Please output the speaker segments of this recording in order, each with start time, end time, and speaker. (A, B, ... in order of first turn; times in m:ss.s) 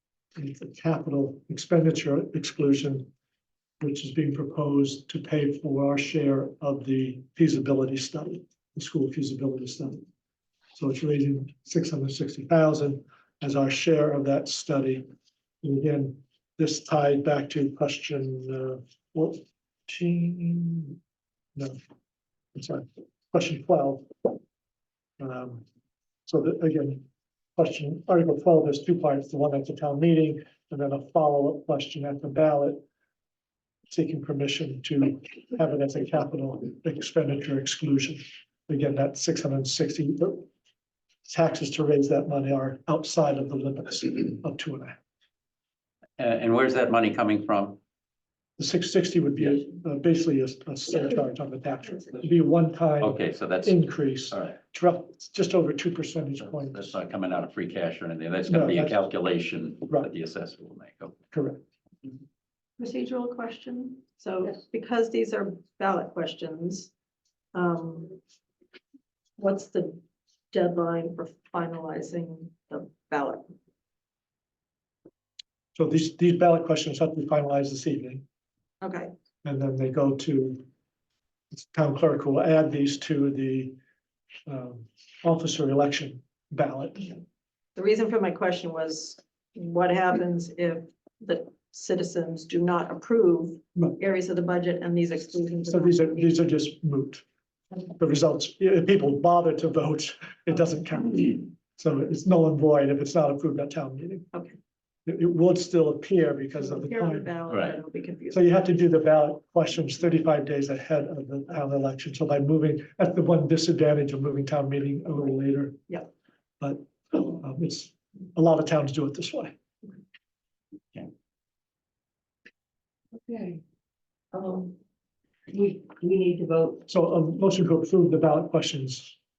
0:00.4-0:03.1 A
0:03.8-0:10.0 A
0:10.8-0:15.0 A
0:15.6-0:21.0 A
0:22.5-0:24.1 A
0:25.2-0:25.6 A
0:26.2-0:27.0 A
0:27.6-0:32.8 A
0:33.9-0:40.5 A
0:41.2-0:45.0 A
0:46.2-0:47.8 B
0:48.6-0:57.0 A
0:53.0-0:54.6 B
0:56.6-1:01.2 B
0:58.5-0:59.0 A
1:01.3-1:01.6 A
1:02.8-1:06.9 C
1:07.5-1:08.2 C
1:09.4-1:10.0 C
1:10.5-1:13.4 C
1:15.7-1:18.2 A
1:18.8-1:19.1 C
1:19.4-1:20.6 A
1:21.5-1:23.8 A
1:24.5-1:27.1 A
1:27.8-1:36.4 C
1:35.7-1:37.2 A
1:38.0-1:44.3 A
1:45.0-1:47.4 A
1:46.6-1:48.4 C
1:47.5-1:47.8 B
1:48.3-1:55.8 A
1:56.6-1:59.5 A
2:03.2-2:03.6 D
2:04.3-2:04.8 D
2:05.5-2:06.8 D
2:06.9-2:09.2 A